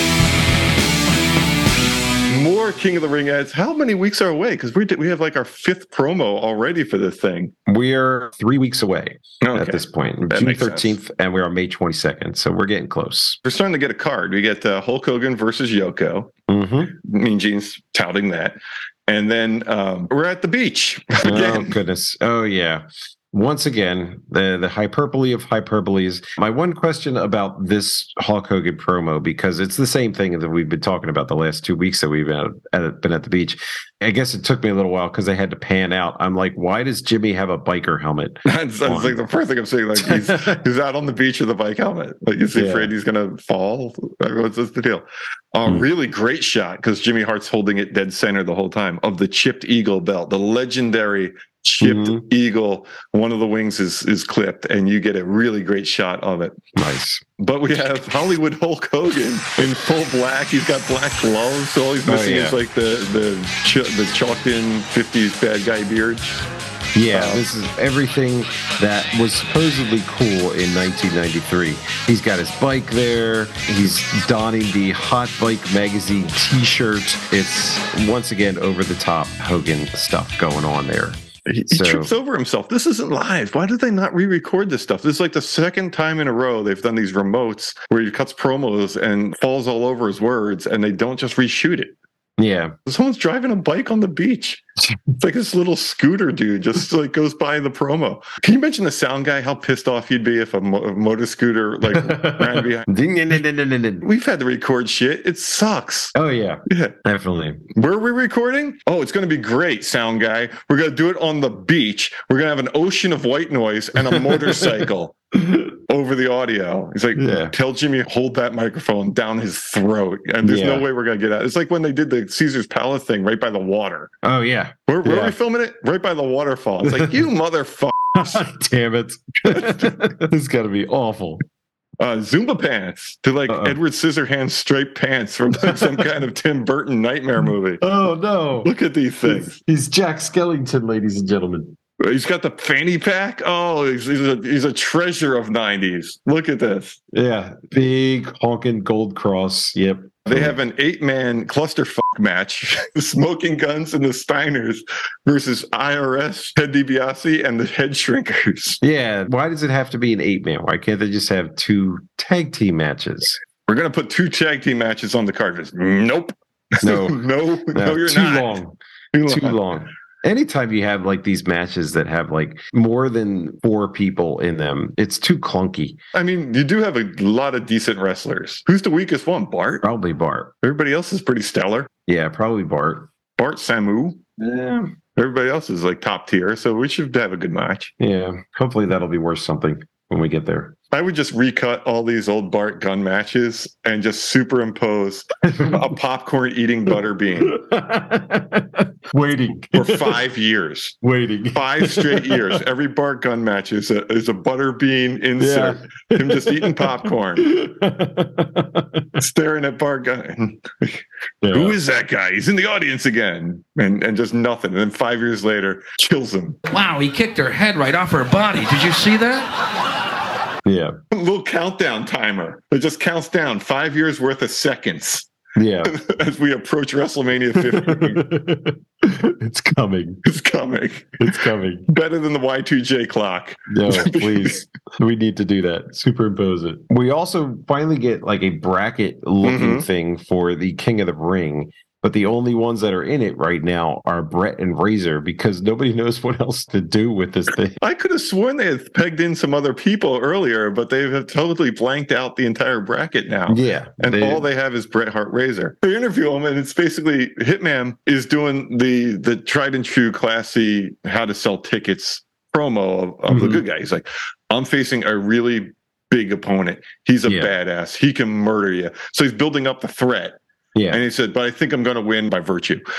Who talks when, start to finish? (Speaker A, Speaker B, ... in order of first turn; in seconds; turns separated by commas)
Speaker A: 2.3-7.5, Speaker B: 7.7-13.4, Speaker A: 9.4-11.0, Speaker A: 13.4-16.3, Speaker B: 16.5-16.9, Speaker A: 16.9-21.8, Speaker B: 21.2-39.2, Speaker A: 38.5-56.6, Speaker B: 40.0-40.6, Speaker B: 42.5-42.9, Speaker B: 51.8-52.2, Speaker B: 56.8-57.2, Speaker A: 57.4-66.4, Speaker B: 62.1-62.6, Speaker B: 67.0-82.1, Speaker A: 67.1-67.5, Speaker A: 81.5-92.0, Speaker B: 92.4-92.7, Speaker A: 92.9-94.7, Speaker A: 95.2-102.9, Speaker B: 101.9-104.1, Speaker A: 104.0-106.1, Speaker B: 106.2-107.6, Speaker A: 106.7-106.9, Speaker A: 107.7-124.1, Speaker B: 114.2-114.7, Speaker B: 117.2-117.5, Speaker B: 120.4-120.9, Speaker B: 124.2-125.3, Speaker A: 124.9-128.5, Speaker B: 126.8-127.2, Speaker B: 128.1-131.4, Speaker A: 129.5-130.1, Speaker A: 132.0-137.8, Speaker B: 133.5-133.8, Speaker B: 137.8-138.7, Speaker A: 138.6-139.6, Speaker B: 139.2-141.8, Speaker A: 142.0-147.0, Speaker B: 147.1-150.6, Speaker A: 150.3-158.8, Speaker B: 158.8-163.4, Speaker A: 163.7-168.6, Speaker B: 166.8-176.0, Speaker A: 169.1-169.6, Speaker A: 176.1-179.8, Speaker B: 179.8-180.5, Speaker A: 180.6-181.9, Speaker B: 182.1-183.1, Speaker A: 183.4-184.2, Speaker B: 184.4-184.9, Speaker A: 185.2-187.9, Speaker B: 188.0-190.8, Speaker A: 190.9-197.6, Speaker B: 195.4-195.9, Speaker B: 197.4-200.2, Speaker A: 199.7-207.5, Speaker B: 201.0-202.6, Speaker B: 205.4-209.2, Speaker A: 209.2-216.6, Speaker B: 211.4-211.8, Speaker C: 216.7-219.5, Speaker B: 220.7-220.9, Speaker A: 221.1-225.3, Speaker B: 225.6-225.9, Speaker A: 225.8-228.3, Speaker B: 227.6-230.2, Speaker A: 230.2-234.7, Speaker B: 231.2-231.9, Speaker B: 233.7-247.8, Speaker A: 239.4-239.9, Speaker A: 247.8-270.4, Speaker B: 253.5-254.4, Speaker B: 263.3-263.6, Speaker B: 267.3-267.5, Speaker B: 270.8-271.0, Speaker A: 270.9-272.8